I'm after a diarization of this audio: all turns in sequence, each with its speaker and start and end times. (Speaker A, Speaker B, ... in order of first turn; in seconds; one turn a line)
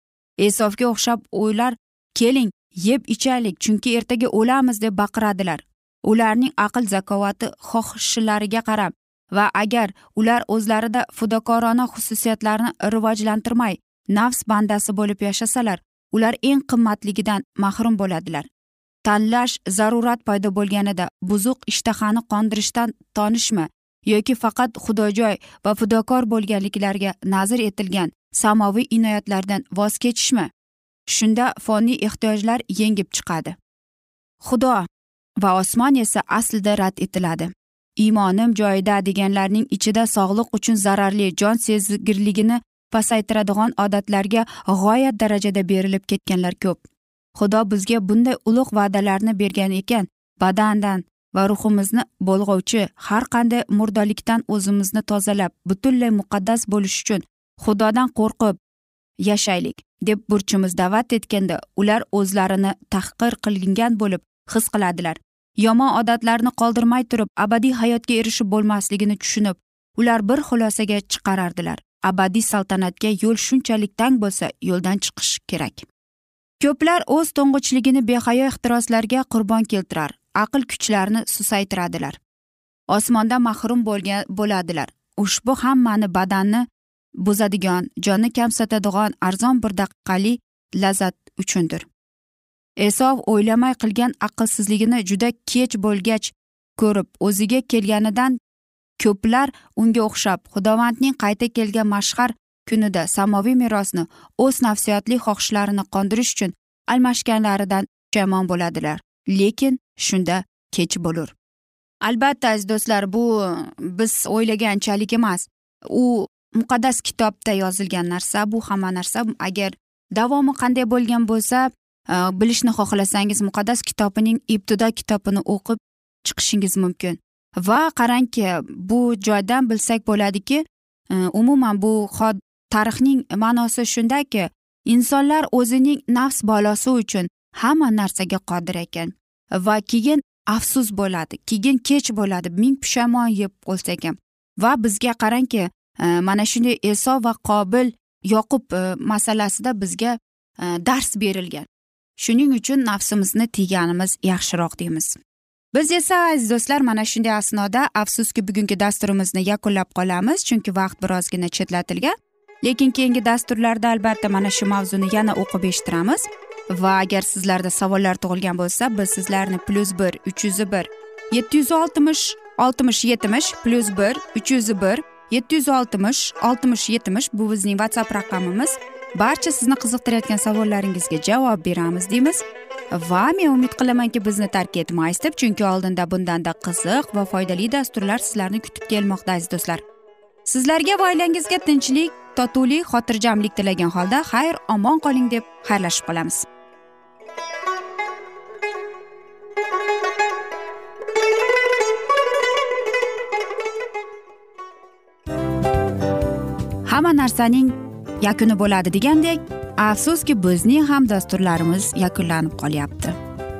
Speaker A: 0.4-18.5
Speaker A: 19.1-30.5
Speaker A: 31.1-33.6
Speaker A: 34.4-34.9
Speaker A: 35.4-46.8
Speaker A: 47.4-58.6
Speaker A: 59.2-75.9
Speaker A: 76.6-82.2
Speaker A: 82.9-86.7
Speaker A: 87.2-91.9
Speaker A: 92.8-98.4
Speaker A: 99.0-111.3
Speaker A: 112.0-155.2
Speaker A: 155.7-189.8
Speaker A: 190.5-196.5
Speaker A: 206.9-213.2